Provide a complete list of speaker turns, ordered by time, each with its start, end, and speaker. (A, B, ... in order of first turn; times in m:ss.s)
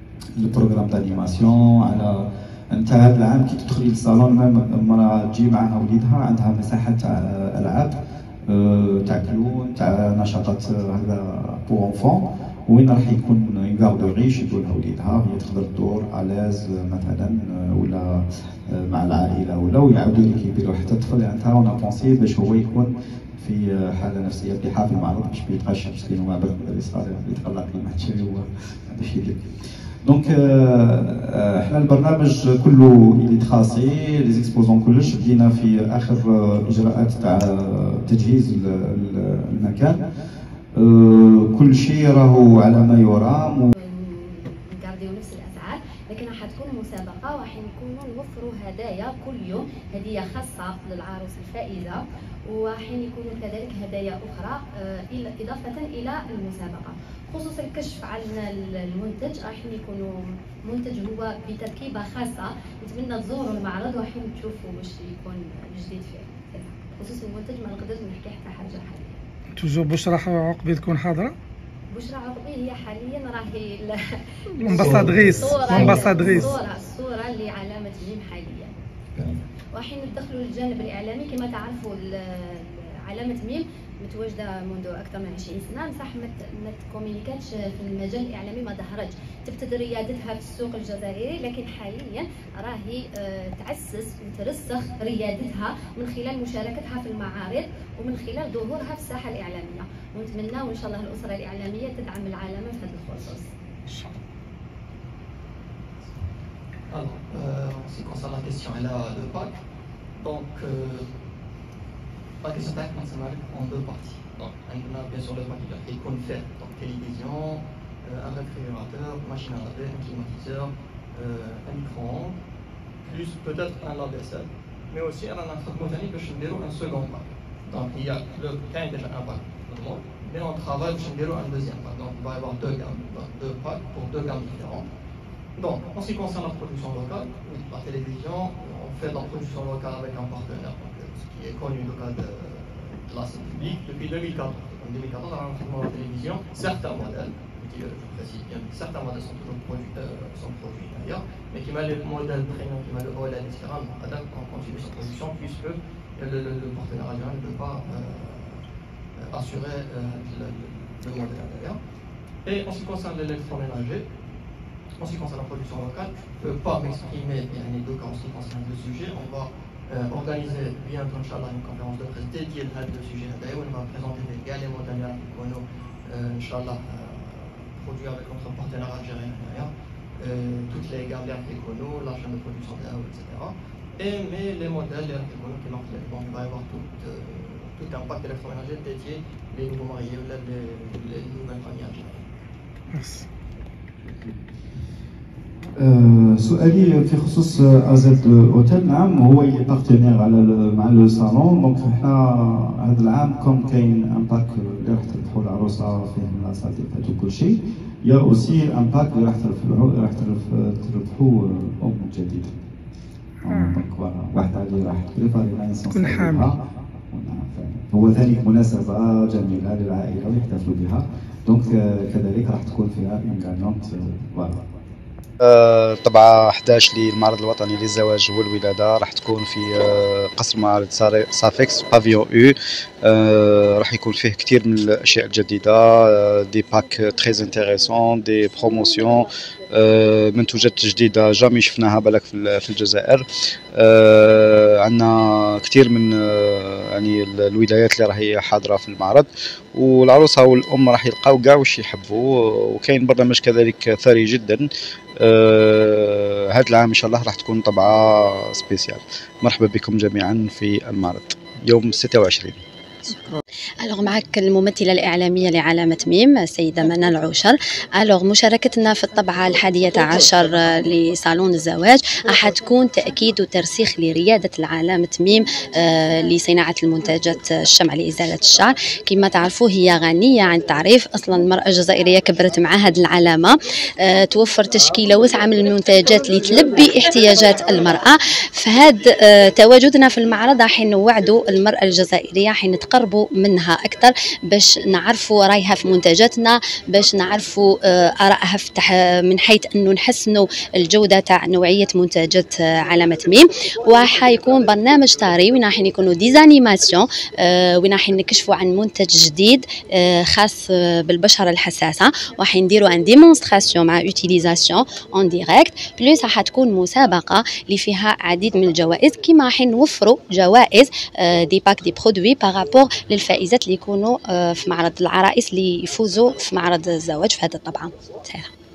0:00.4-0:29.4 A
0:30.0-0:40.0 A
0:40.7-0:43.7 A
0:43.8-1:09.2 B
1:09.5-1:11.3 C
1:11.9-1:18.8 B
1:14.6-1:16.5 C
1:14.8-1:16.5 A
1:19.7-1:44.0 B
1:46.9-1:49.5 D
1:50.2-1:51.1 D
1:52.4-2:02.4 D
2:03.0-2:14.8 D
2:15.6-2:41.8 D
2:42.4-2:44.0 D
2:45.0-3:12.3 D
3:12.9-3:13.3 C
3:15.8-3:32.5 A
3:33.4-3:44.6 A
3:33.5-3:33.8 C
3:35.9-3:36.5 C
3:45.4-4:23.1 A
4:23.8-5:28.5 B